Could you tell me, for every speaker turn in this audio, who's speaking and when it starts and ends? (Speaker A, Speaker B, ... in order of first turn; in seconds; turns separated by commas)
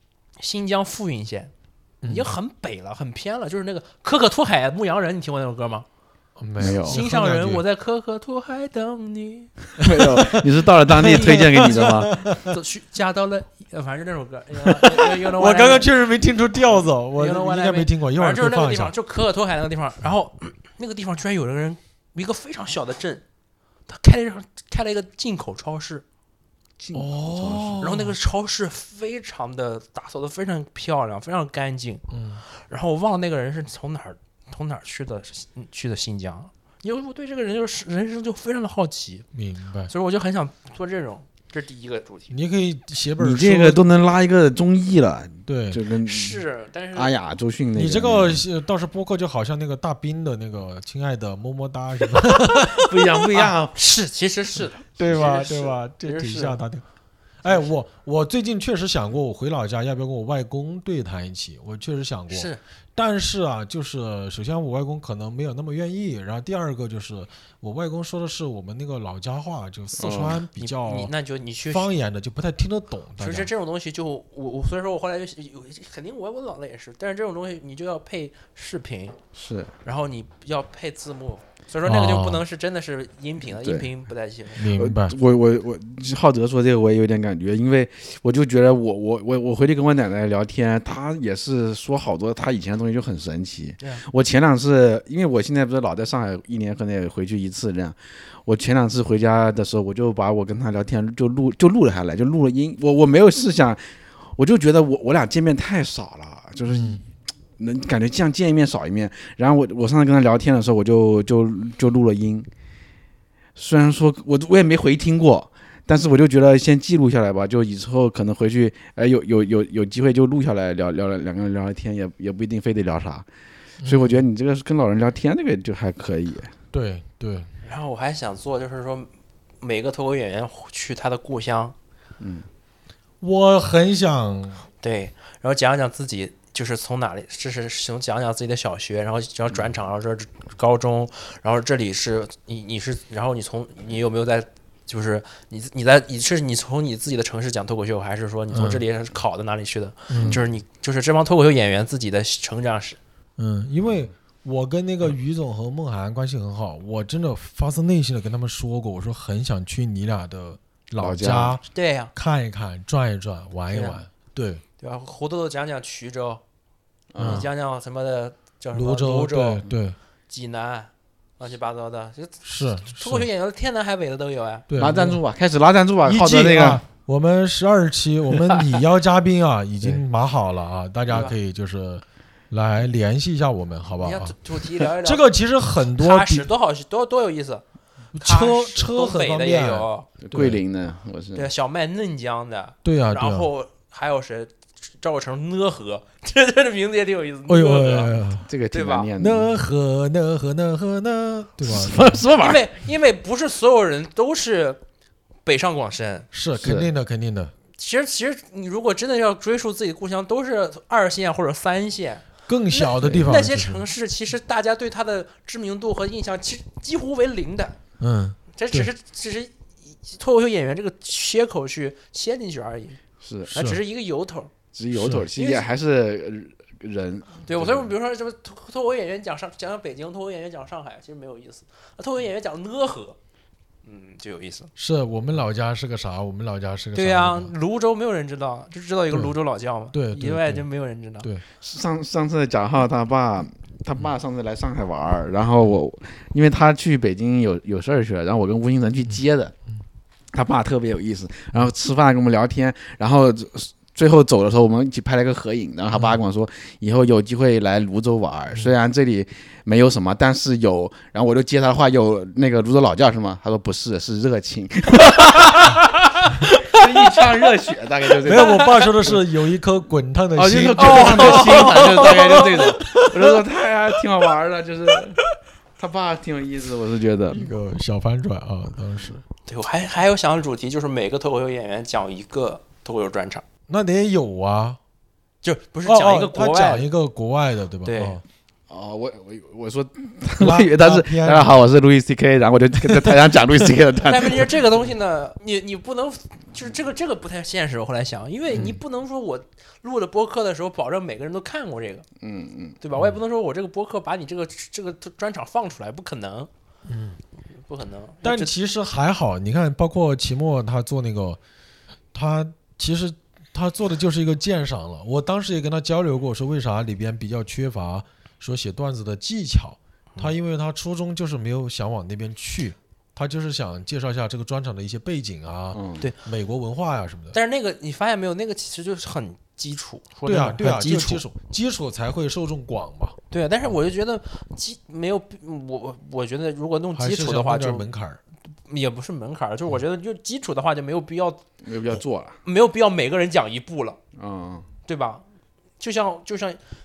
Speaker A: 0.4-1.5, Speaker B: 2.0-2.3, Speaker A: 2.0-5.8, Speaker B: 6.4-7.6, Speaker C: 6.6-7.0, Speaker A: 6.7-9.5, Speaker C: 9.8-12.2, Speaker B: 9.8-12.4, Speaker A: 10.9-15.9, Speaker B: 14.7-18.9, Speaker A: 17.1-23.2, Speaker A: 23.9-26.0, Speaker C: 26.8-27.9, Speaker B: 26.9-28.1, Speaker A: 27.8-39.2, Speaker B: 32.1-32.4, Speaker B: 39.3-39.9, Speaker A: 39.9-42.3, Speaker B: 42.3-43.8, Speaker C: 43.2-46.4, Speaker B: 45.5-45.8, Speaker A: 46.0-47.1, Speaker C: 46.9-48.4, Speaker B: 47.7-53.1, Speaker C: 52.7-53.7, Speaker A: 53.3-56.5, Speaker B: 55.0-56.8, Speaker B: 57.4-71.1, Speaker A: 62.3-62.6, Speaker C: 70.0-70.4, Speaker A: 70.6-71.9, Speaker B: 71.7-73.5, Speaker A: 73.2-79.2, Speaker C: 79.3-79.7, Speaker A: 79.8-84.6, Speaker B: 81.8-82.4, Speaker C: 83.5-83.9, Speaker B: 84.6-85.1, Speaker C: 84.6-107.0, Speaker B: 106.7-107.0, Speaker C: 107.6-112.5, Speaker C: 113.5-123.2, Speaker B: 123.8-124.2, Speaker C: 123.8-126.5, Speaker B: 126.7-127.5, Speaker A: 127.6-131.7, Speaker C: 132.2-132.5, Speaker B: 133.2-134.6, Speaker A: 134.8-153.0, Speaker B: 148.5-148.8, Speaker B: 150.1-150.4, Speaker C: 150.1-150.4, Speaker B: 153.4-164.6, Speaker C: 161.0-161.6, Speaker A: 161.7-162.1, Speaker A: 163.7-164.0, Speaker A: 164.8-166.4, Speaker C: 167.1-167.5, Speaker B: 167.2-167.5, Speaker A: 167.2-169.6, Speaker B: 168.7-169.9, Speaker A: 170.3-174.7, Speaker B: 172.4-173.3, Speaker B: 174.7-175.2, Speaker C: 174.8-176.8, Speaker B: 176.0-184.3, Speaker A: 181.1-181.3, Speaker A: 184.0-185.2, Speaker B: 185.0-186.5, Speaker A: 186.0-187.6, Speaker B: 188.1-190.6, Speaker A: 188.2-190.1, Speaker C: 190.2-191.5, Speaker A: 191.3-199.1, Speaker B: 192.8-193.5, Speaker B: 197.5-198.5, Speaker C: 198.4-199.6, Speaker B: 199.2-202.2, Speaker C: 201.6-202.6, Speaker A: 202.3-204.8, Speaker A: 205.4-206.3, Speaker B: 206.3-207.5, Speaker C: 206.6-206.9, Speaker A: 207.7-217.8, Speaker B: 212.5-213.8, Speaker B: 218.0-218.9, Speaker A: 218.5-223.0, Speaker C: 223.2-223.5, Speaker B: 223.5-223.8, Speaker A: 223.5-224.5, Speaker C: 224.7-227.9, Speaker B: 224.9-225.2, Speaker A: 225.3-225.6, Speaker A: 227.4-233.2, Speaker A: 233.8-234.7, Speaker B: 234.8-237.5, Speaker A: 236.9-241.3, Speaker B: 239.1-239.3, Speaker B: 239.9-240.7, Speaker C: 241.6-249.5, Speaker C: 250.3-265.9, Speaker B: 255.9-256.2, Speaker C: 266.5-269.2, Speaker B: 268.2-272.2, Speaker A: 268.3-268.6, Speaker C: 270.4-275.2, Speaker A: 270.8-272.8, Speaker C: 275.8-277.5, Speaker B: 277.3-279.2, Speaker A: 279.5-283.4, Speaker B: 283.7-284.8, Speaker A: 285.4-286.9, Speaker B: 285.8-288.2, Speaker A: 287.8-288.2, Speaker C: 288.7-294.6, Speaker B: 290.4-291.5, Speaker A: 294.0-302.1, Speaker C: 302.2-302.8, Speaker A: 302.8-306.5, Speaker B: 306.9-307.2, Speaker A: 307.6-308.5, Speaker B: 308.2-311.4, Speaker B: 312.1-327.4, Speaker C: 325.7-326.0, Speaker A: 327.3-331.2, Speaker B: 330.2-333.1, Speaker A: 333.3-337.9, Speaker B: 336.9-338.2, Speaker A: 338.6-341.4, Speaker C: 341.6-342.4, Speaker A: 342.4-344.0, Speaker C: 344.1-344.7, Speaker A: 344.9-345.2, Speaker A: 345.8-346.6